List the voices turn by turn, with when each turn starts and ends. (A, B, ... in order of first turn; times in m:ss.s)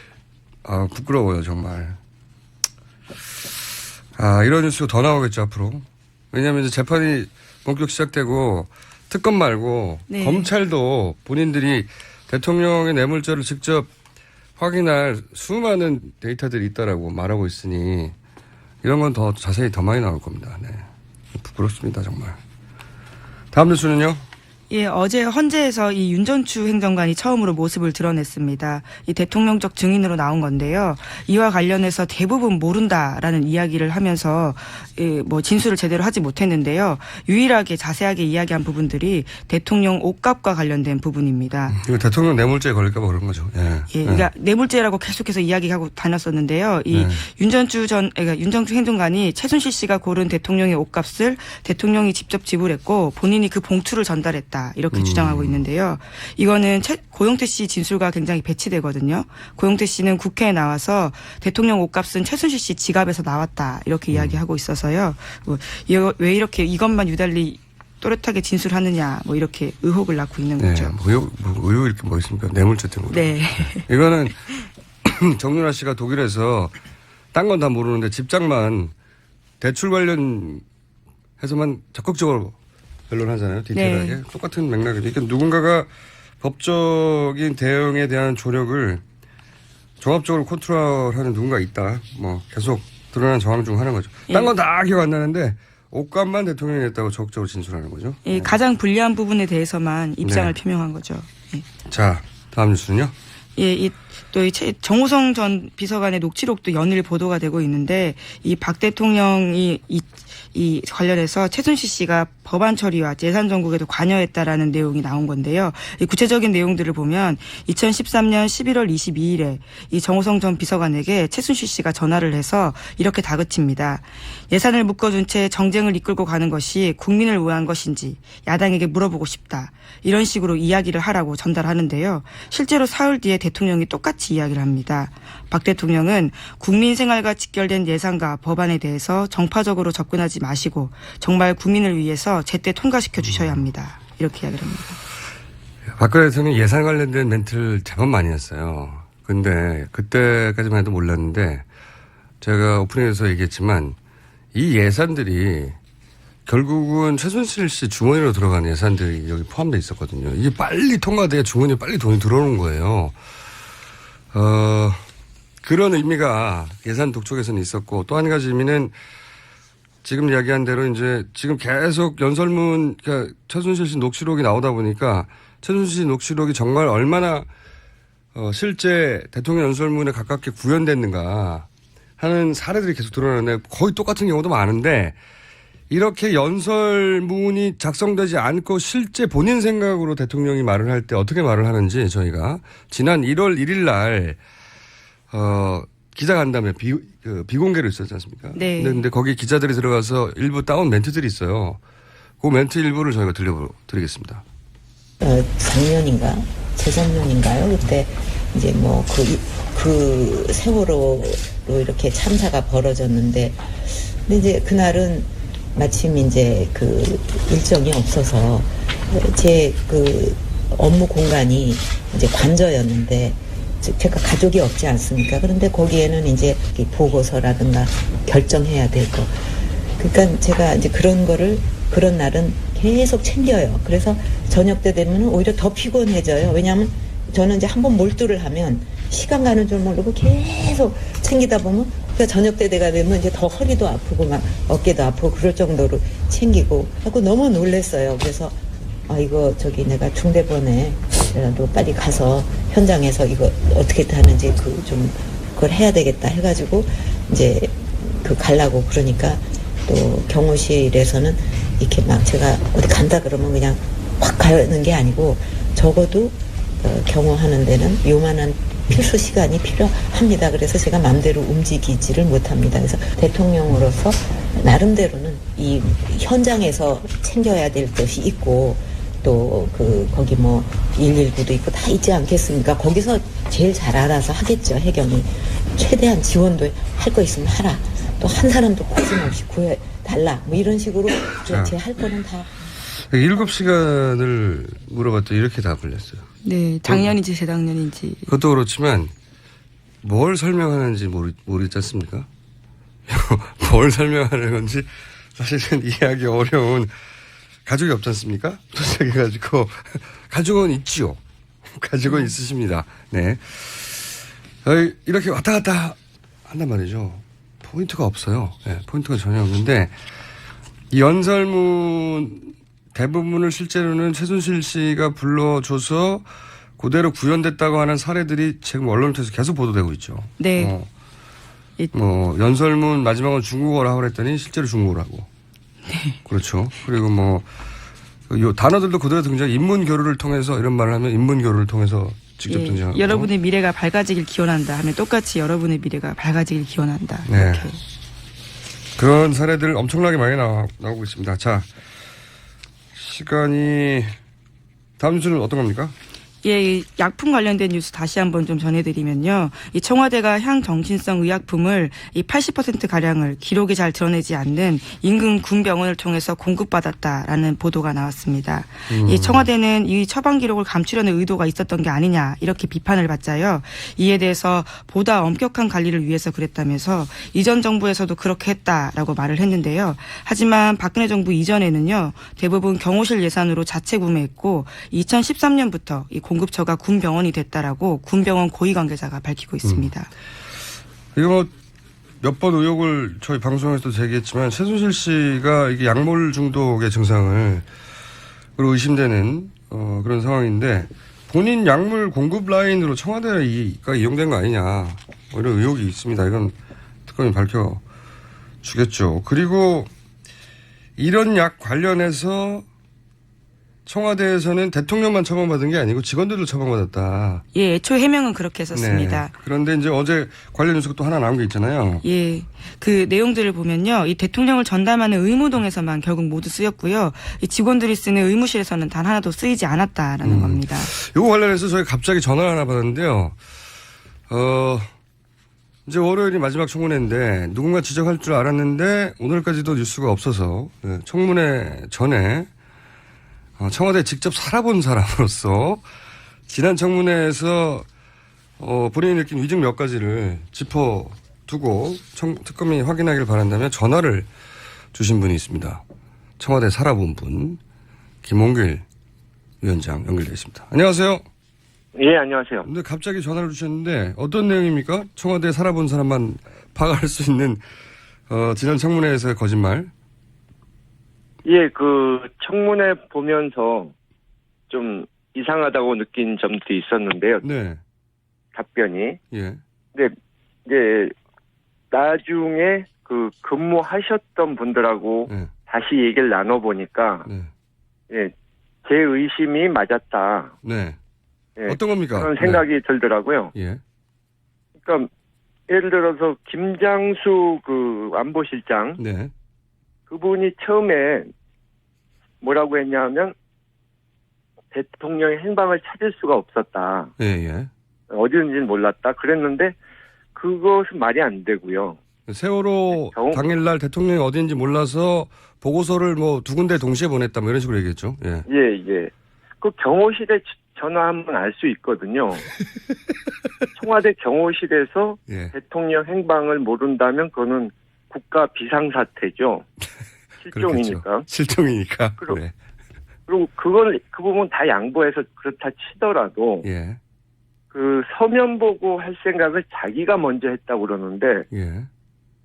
0:00.6-0:02.0 A
0:04.2-0:13.9 A
0:10.1-0:10.5 B
0:14.6-0:18.1 A
0:18.8-0:22.4 A
0:23.5-0:24.2 A
0:24.7-0:41.8 B
0:41.7-0:44.3 A
0:43.9-1:11.0 B
0:46.9-0:47.2 A
0:54.9-0:55.6 A
1:04.1-1:04.4 A
1:10.6-1:14.5 A
1:13.1-1:13.9 B
1:15.0-1:16.8 A
1:17.3-1:18.9 A
1:19.6-1:20.6 A
1:21.4-1:22.5 A
1:23.1-1:25.9 A
1:23.7-1:24.2 B
1:26.4-1:29.0 A
1:30.0-1:38.6 A
1:38.2-1:41.6 B
1:40.2-1:40.5 A
1:41.9-1:43.1 A
1:43.6-2:25.0 B
2:23.2-2:23.6 A
2:26.0-2:31.6 A
2:32.4-2:34.0 A
2:34.5-2:35.8 A
2:36.4-2:43.2 A
2:44.3-2:45.0 A
2:45.6-2:48.9 A
2:50.0-2:57.5 A
2:58.3-3:01.7 A
3:02.2-3:05.2 A
3:05.9-3:14.4 A
3:15.3-3:21.8 A
3:18.5-3:19.0 B
3:22.4-3:24.4 A
3:25.2-3:49.3 C
3:50.0-4:52.6 C
4:51.4-4:51.7 A
4:52.9-4:56.2 A
4:56.4-4:58.3 B
4:56.8-4:57.1 A
4:58.3-4:59.1 A
5:00.0-5:02.3 A
5:03.1-5:06.9 A
5:07.6-5:11.2 A
5:11.7-5:20.0 A
5:12.1-5:12.3 B
5:20.9-5:26.3 A
5:26.8-5:30.9 A
5:30.4-5:30.7 B
5:31.9-5:35.3 A
5:35.9-5:36.2 B
5:36.2-5:37.5 A
5:38.3-5:43.3 A
5:42.5-5:47.8 B
5:47.2-5:47.7 A
5:49.0-5:51.7 A
5:52.9-5:54.1 A
5:55.0-5:55.9 A
5:56.4-6:30.1 B
6:08.9-6:09.5 A
6:29.6-6:29.9 A
6:31.1-6:31.5 A
6:32.2-6:37.7 A
6:38.6-6:46.5 A
6:47.0-6:47.8 A
6:48.6-6:49.9 A
6:51.0-6:52.6 A
6:53.8-6:57.4 A
6:57.5-6:59.3 B
6:58.7-7:02.0 A
7:02.0-7:10.9 B
7:10.2-7:13.4 A
7:14.3-7:14.9 A
7:15.8-7:22.5 A
7:23.6-7:25.8 A
7:26.5-7:27.9 A
7:28.6-7:34.3 A
7:34.9-7:35.8 A
7:36.4-7:37.6 A
7:38.2-7:38.8 A
7:39.6-7:41.2 A
7:41.9-7:42.7 D
7:42.6-7:47.6 A
7:48.3-7:49.9 A
7:51.4-7:53.9 D
7:54.7-7:57.4 D
7:57.4-7:57.8 A
7:58.5-7:59.2 D
7:59.3-7:59.6 A
8:00.6-8:01.1 D
8:01.9-8:07.3 D
8:07.2-8:07.5 A
8:08.8-8:10.5 D
8:10.6-8:11.0 A
8:11.6-8:13.5 D
8:11.7-8:12.6 A
8:13.5-8:13.8 A
8:14.8-8:15.1 D
8:15.7-8:19.0 D
8:19.0-8:19.3 A
8:20.1-8:21.3 D
8:22.4-8:23.3 D
8:24.7-8:27.1 D
8:27.2-8:27.7 A
8:28.1-8:29.7 D
8:30.3-8:32.0 D
8:32.3-8:38.4 A
8:33.1-8:33.4 D
8:38.5-8:42.4 D
8:43.8-8:49.6 D
8:45.3-8:45.5 A
8:50.4-8:51.2 D
8:50.5-8:52.5 A
8:53.3-8:56.6 D
8:56.6-8:57.0 A
8:57.7-9:01.4 D
9:01.5-9:01.9 A